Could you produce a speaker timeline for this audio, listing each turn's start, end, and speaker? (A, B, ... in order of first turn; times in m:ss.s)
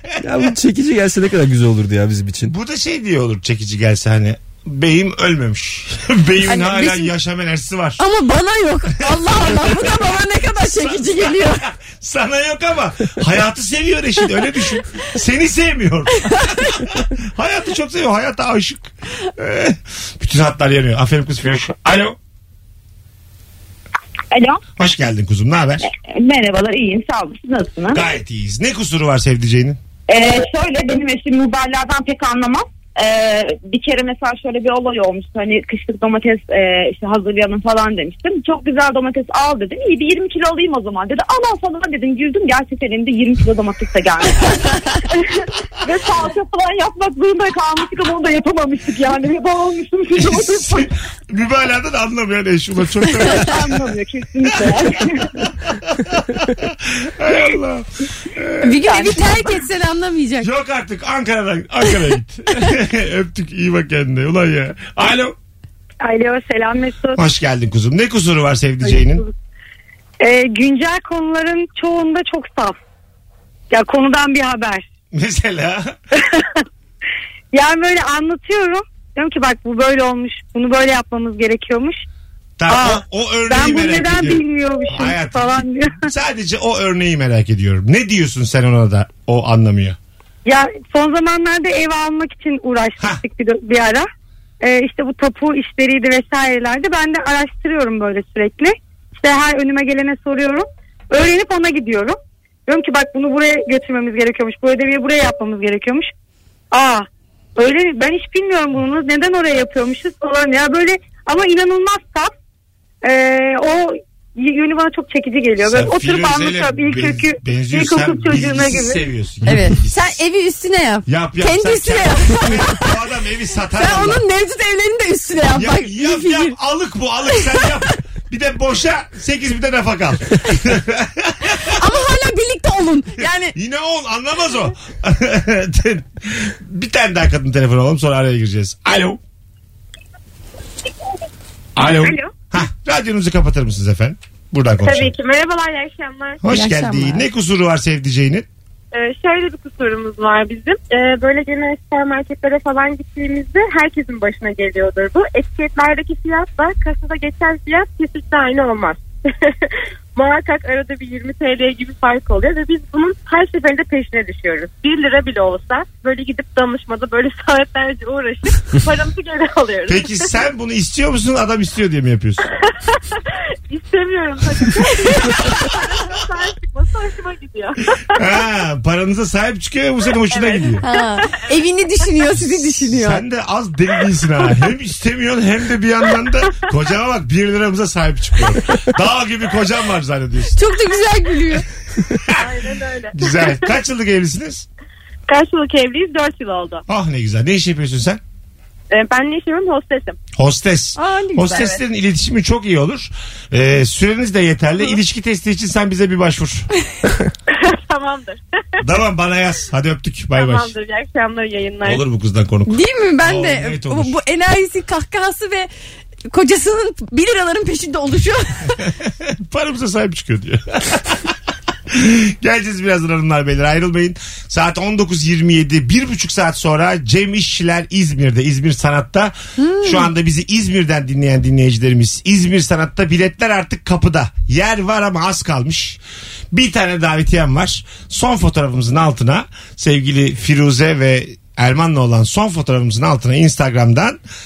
0:00.2-0:02.5 A
0:02.4-0:08.0 B
0:06.4-0:07.1 C
0:08.0-0:11.6 C
0:09.1-0:10.0 B
0:10.6-0:22.2 B
0:24.3-0:24.6 D
0:24.8-0:25.9 B
0:25.9-0:28.0 D
0:27.9-0:29.8 B
0:30.1-0:45.0 D
0:45.8-0:50.9 D
0:50.2-0:53.8 B
0:53.2-0:55.5 D
0:55.4-0:59.2 B
0:58.6-1:00.5 C
1:00.4-1:05.3 B
1:06.0-1:07.2 E
1:07.2-1:09.2 B
1:10.2-1:12.8 E
1:13.7-1:14.8 E
1:15.1-1:15.9 B
1:17.5-1:22.0 E
1:22.6-1:30.0 B
1:22.7-1:26.1 E
1:30.4-1:34.1 E
1:34.6-1:46.1 E
1:46.7-1:52.3 E
1:53.0-1:59.0 E
1:55.6-2:00.1 B
1:59.4-2:02.9 C
2:01.1-2:04.2 B
2:03.8-2:06.5 C
2:05.5-2:11.7 B
2:07.4-2:07.7 C
2:11.7-2:13.5 C
2:13.5-2:19.2 B
2:21.8-2:25.1 B
2:22.0-2:22.3 F
2:24.8-2:26.4 F
2:26.4-2:28.4 B
2:26.5-2:27.2 C
2:28.9-2:39.5 F
2:40.1-2:50.3 F
2:49.9-2:52.4 B
2:53.7-2:58.2 F
2:58.2-3:00.8 B
3:00.3-3:01.4 F
3:00.8-3:03.2 C
3:02.4-3:10.6 B
3:10.5-3:11.6 C
3:12.1-3:14.6 B
3:12.4-3:13.6 F
3:15.3-3:16.8 F
3:16.9-3:18.2 B
3:18.9-3:20.2 F
3:20.4-3:26.7 B
3:21.0-3:21.7 C
3:21.5-3:21.8 F
3:27.5-3:28.4 F
3:28.8-3:30.7 B
3:30.3-3:32.0 F
3:31.8-3:34.1 B
3:32.7-3:35.7 C
3:36.3-3:38.8 C
3:39.1-3:41.3 B
3:41.9-3:56.0 B
3:49.6-3:50.1 C
3:56.5-4:04.2 B